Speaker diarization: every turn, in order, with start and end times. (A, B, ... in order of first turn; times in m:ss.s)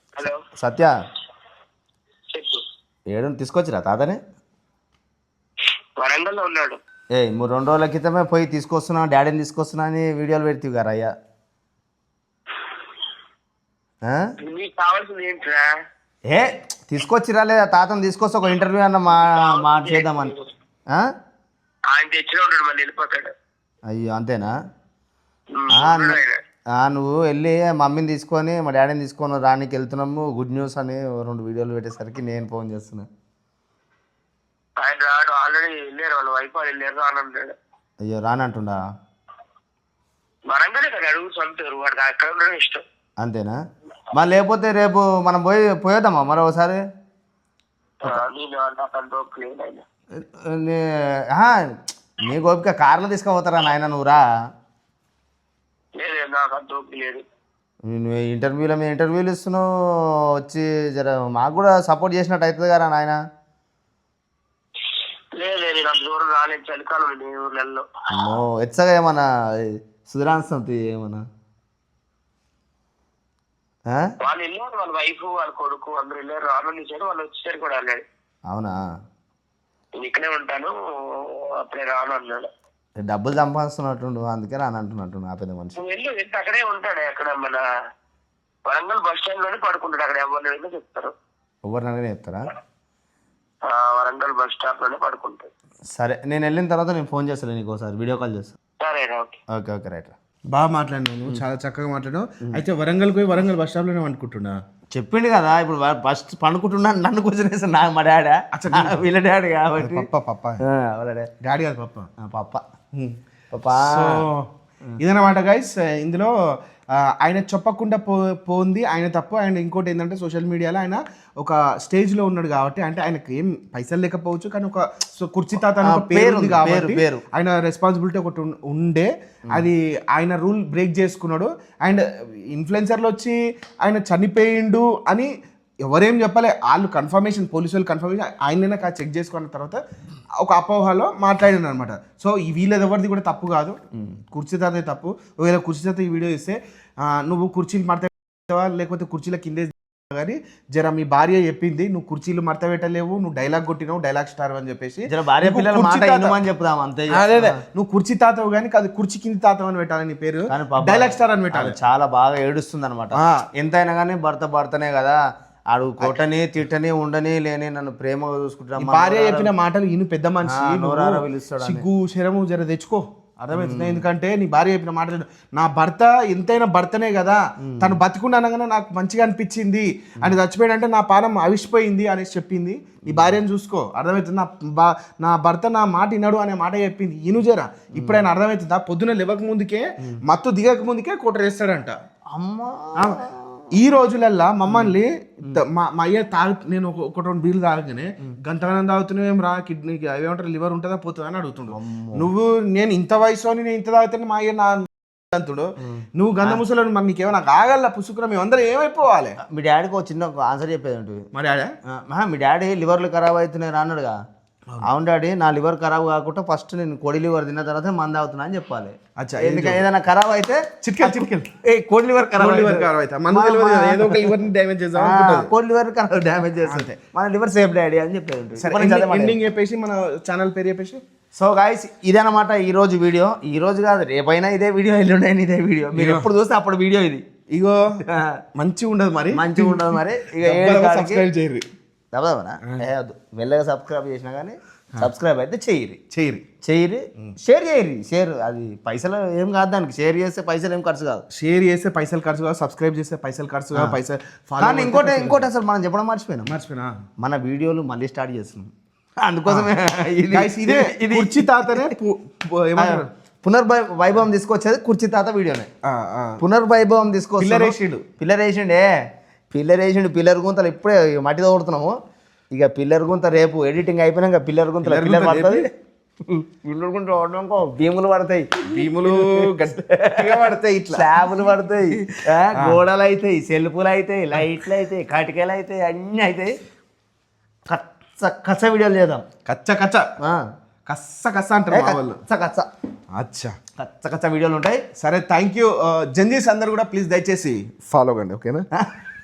0:00.2-0:00.4 A
0:00.6-0:00.9 B
0:02.3-0:02.6 A
0:03.1-0:04.2 B
0:06.0-0:06.8 A
0:07.1-0:11.1 B
0:14.0-0:14.3 B
0:14.4-0:15.7 A
0:16.3-0:20.3 B
0:19.2-0:20.5 A
0:21.9-0:23.3 A
0:23.9-0:24.5 B
0:25.5-0:26.4 A
0:25.7-0:26.2 B
0:26.8-0:33.1 B
0:34.8-0:37.6 A
0:38.0-0:38.8 B
0:40.5-0:42.8 A
0:43.2-0:43.6 B
0:44.1-0:46.8 B
0:48.0-0:49.8 A
0:50.2-0:54.2 B
0:56.0-0:57.2 A
0:57.9-1:03.2 B
1:05.3-1:07.9 A
1:08.1-1:11.2 B
1:14.2-1:18.0 A
1:18.5-1:18.8 B
1:20.0-1:22.5 A
1:23.0-1:25.8 B
1:25.8-1:27.6 A
1:28.6-1:31.1 A
1:31.6-1:32.5 B
1:33.6-1:35.5 A
1:35.9-1:38.5 B
1:38.8-1:39.4 A
1:39.5-1:40.1 B
1:40.5-1:44.6 C
1:44.9-1:50.0 B
1:48.5-1:49.0 C
1:49.8-1:50.6 C
1:50.6-1:51.3 B
1:51.4-1:52.1 C
1:52.2-1:52.6 B
1:53.5-1:54.3 B
1:53.7-1:54.5 C
1:55.0-1:56.3 C
1:57.0-2:15.3 C
2:05.8-2:07.2 B
2:15.8-2:19.8 C
2:20.4-2:23.8 C
2:24.3-2:36.4 C
2:35.1-2:37.6 B
2:37.1-2:41.7 C
2:40.5-2:45.2 B
2:43.1-2:43.4 C
2:45.7-2:49.5 B
2:48.8-3:12.0 C
2:50.5-2:51.8 B
2:53.5-2:54.0 B
2:57.7-2:58.0 B
3:03.1-3:03.4 B
3:12.3-3:13.7 B
3:13.7-3:29.4 C
3:14.7-3:15.6 B
3:21.7-3:22.3 B
3:25.8-3:26.6 B
3:29.4-3:31.3 B
3:31.3-3:31.7 C
3:31.9-3:34.2 B
3:34.8-3:44.3 B
3:39.2-3:39.8 C
3:40.8-3:41.5 C
3:42.3-3:45.5 C
3:45.0-3:49.4 B
3:46.7-3:47.0 C
3:48.6-3:51.0 C
3:51.4-3:57.2 B
3:56.0-3:56.3 C
3:57.5-3:57.8 C
3:58.1-3:58.4 B
3:58.6-4:01.6 C
3:59.3-4:01.2 B
4:02.1-4:06.0 B
4:06.1-4:06.4 C
4:06.6-4:11.2 B
4:11.3-4:15.5 C
4:14.6-4:16.5 B
4:16.5-4:16.9 C
4:17.2-4:18.7 B
4:19.2-4:21.9 B
4:19.4-4:19.7 C
4:20.3-4:23.1 C
4:22.8-4:25.7 B
4:25.8-4:26.4 C
4:26.4-4:28.9 B
4:27.4-4:28.0 C
4:29.5-4:32.0 B
4:32.5-4:35.6 B
4:34.8-4:35.6 C
4:36.2-4:46.5 B
4:38.6-4:41.1 C
4:47.7-4:49.2 B
4:49.4-4:50.1 C
4:50.2-4:50.5 B
4:50.9-4:52.2 C
4:51.7-4:52.7 B
4:53.1-4:53.5 C
4:53.8-4:54.8 B
4:55.0-4:58.6 C